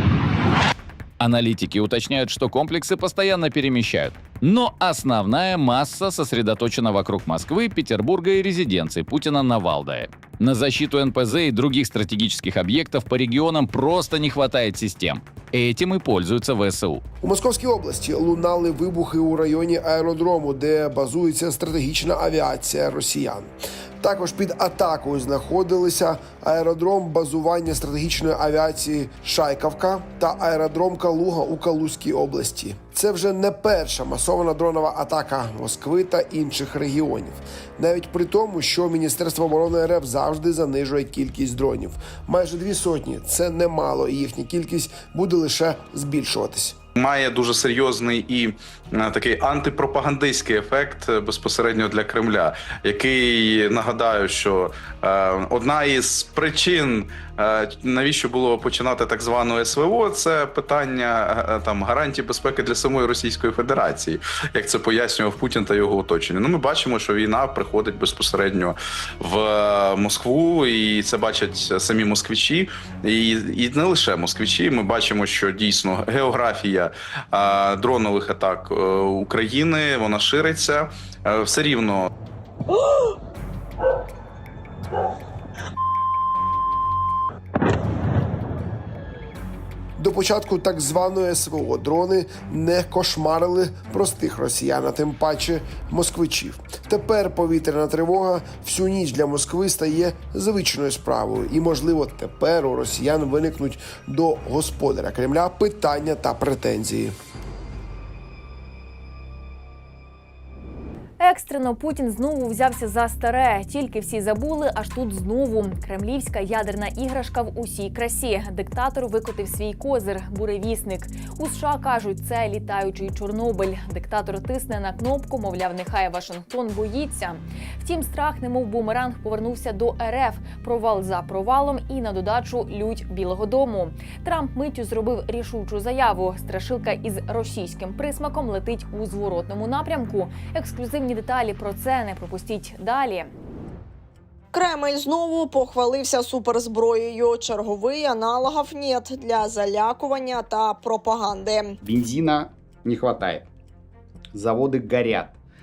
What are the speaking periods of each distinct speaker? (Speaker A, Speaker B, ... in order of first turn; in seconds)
Speaker A: 1.2-17.0
Speaker B: 17.2-46.8, 90.0-107.1
Speaker C: 47.0-82.1
Speaker D: 111.2-143.3
Speaker E: 144.5-151.8
Speaker F: 151.8-153.5, 154.3-155.4